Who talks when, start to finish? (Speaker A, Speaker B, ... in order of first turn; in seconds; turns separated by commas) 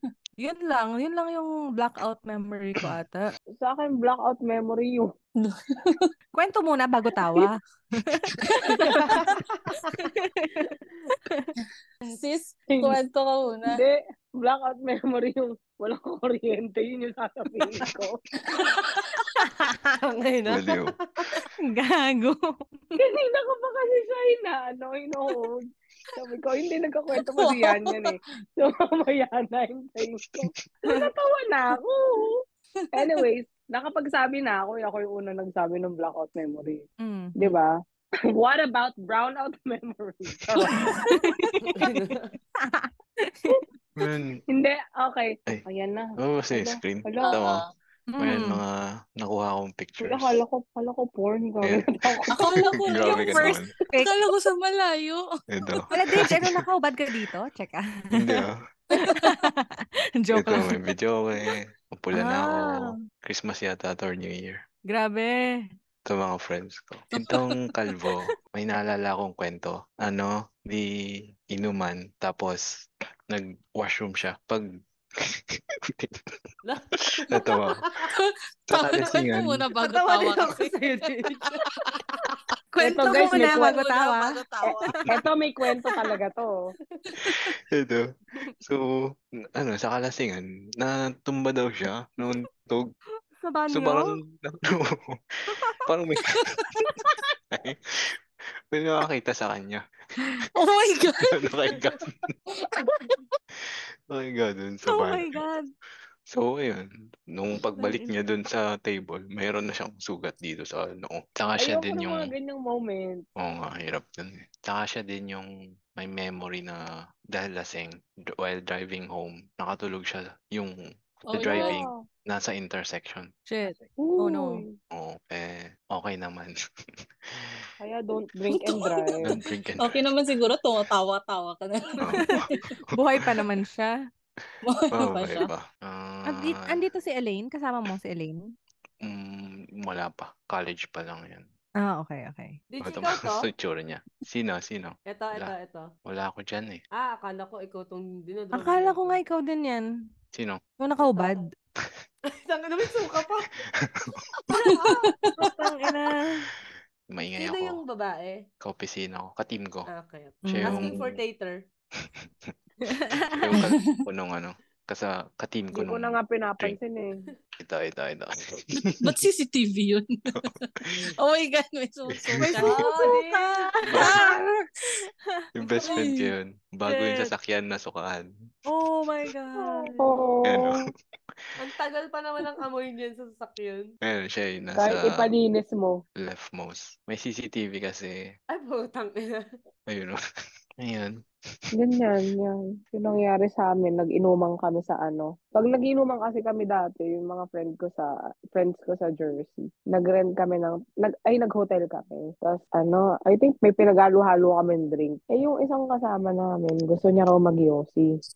Speaker A: 0.4-3.2, Speaker B: 3.6-5.1, Speaker C: 5.4-6.1, Speaker A: 6.3-9.3, Speaker C: 8.4-9.3, Speaker D: 8.8-9.9, Speaker A: 9.8-11.5, Speaker C: 12.0-13.8, Speaker B: 13.7-18.2, Speaker C: 18.5-19.2, Speaker A: 19.1-19.8, Speaker D: 20.0-21.4, Speaker E: 20.5-21.5, Speaker A: 21.6-23.0, Speaker B: 23.0-25.6, Speaker B: 26.1-32.4, Speaker C: 27.4-28.1, Speaker B: 32.9-36.8, Speaker A: 37.0-37.4, Speaker B: 37.4-37.7, Speaker B: 38.3-40.9, Speaker C: 40.7-41.7, Speaker A: 41.0-42.0, Speaker D: 41.8-42.3, Speaker A: 42.6-43.6, Speaker E: 44.0-44.4, Speaker B: 44.5-47.4, Speaker E: 46.2-47.6, Speaker C: 47.2-47.6, Speaker A: 48.1-48.6, Speaker E: 48.2-50.3, Speaker B: 50.0-52.3, Speaker E: 51.6-52.2, Speaker C: 52.4-55.8, Speaker A: 52.5-54.2, Speaker E: 52.9-53.7, Speaker E: 55.5-56.6, Speaker A: 55.9-58.4, Speaker E: 58.1-58.6, Speaker C: 58.9-59.5, Speaker A: 59.0-60.8, Speaker E: 60.3-64.6, Speaker A: 62.1-63.1, Speaker A: 64.9-65.6, Speaker E: 66.1-76.2, Speaker D: 76.6-78.1, Speaker E: 77.2-77.9, Speaker C: 78.1-82.3, Speaker E: 78.7-79.6, Speaker D: 79.8-82.3, Speaker A: 82.7-85.0, Speaker B: 82.8-83.8, Speaker C: 83.1-85.0, Speaker B: 84.6-86.5, Speaker C: 87.1-87.5, Speaker E: 87.2-88.0, Speaker E: 88.6-92.9, Speaker A: 93.4-94.2, Speaker E: 93.7-98.2, Speaker C: 96.2-97.1, Speaker E: 98.7-100.4, Speaker C: 100.5-101.5, Speaker E: 101.2-102.1, Speaker E: 103.5-105.4, Speaker A: 104.8-105.7, Speaker E: 106.3-112.3, Speaker B: 111.6-113.2, Speaker E: 113.4-120.7, Speaker C: 121.3-121.8, Speaker E: 121.3-123.3, Speaker B: 121.4-122.0, Speaker A: 123.5-124.7, Speaker B: 124.0-124.7, Speaker E: 124.9-126.6, Speaker E: 127.3-127.7, Speaker B: 127.8-129.4, Speaker C: 128.6-129.2, Speaker E: 129.2-130.0, Speaker C: 129.8-132.6, Speaker E: 132.0-133.6, Speaker A: 132.0-133.9, Speaker C: 134.6-135.5, Speaker E: 134.9-136.6, Speaker A: 136.2-138.4, Speaker E: 139.0-141.4, Speaker A: 141.8-142.6, Speaker D: 142.7-143.5, Speaker E: 142.8-145.5, Speaker D: 145.1-145.9, Speaker E: 146.1-146.8, Speaker D: 146.9-149.2, Speaker A: 148.5-149.8, Speaker E: 150.3-150.6, Speaker A: 150.8-151.5, Speaker D: 151.0-151.4, Speaker D: 152.3-153.6, Speaker E: 153.8-154.2, Speaker C: 154.5-155.5, Speaker A: 154.5-156.5, Speaker D: 154.8-155.1, Speaker E: 157.1-157.8, Speaker D: 157.4-158.4, Speaker E: 158.6-159.9, Speaker D: 159.9-161.6, Speaker A: 160.4-160.9, Speaker E: 160.5-161.2, Speaker E: 162.0-166.8, Speaker A: 162.8-163.6, Speaker B: 165.7-167.2, Speaker E: 167.6-169.1, Speaker C: 169.0-173.4, Speaker E: 170.4-171.1, Speaker E: 172.2-172.6, Speaker D: 172.6-174.2, Speaker A: 172.7-173.2, Speaker E: 173.9-174.2, Speaker A: 173.9-174.4, Speaker C: 173.9-174.9, Speaker A: 174.9-176.1, Speaker E: 175.6-178.3, Speaker C: 175.8-176.3, Speaker A: 176.9-177.3, Speaker A: 178.7-180.1, Speaker E: 179.1-179.3, Speaker B: 180.0-180.8, Speaker E: 180.4-180.9, Speaker D: 181.6-183.9, Speaker E: 184.0-185.2, Speaker B: 184.8-186.0, Speaker E: 186.2-188.2, Speaker D: 188.5-189.5, Speaker E: 189.9-190.2, Speaker E: 190.8-191.7, Speaker B: 191.7-208.1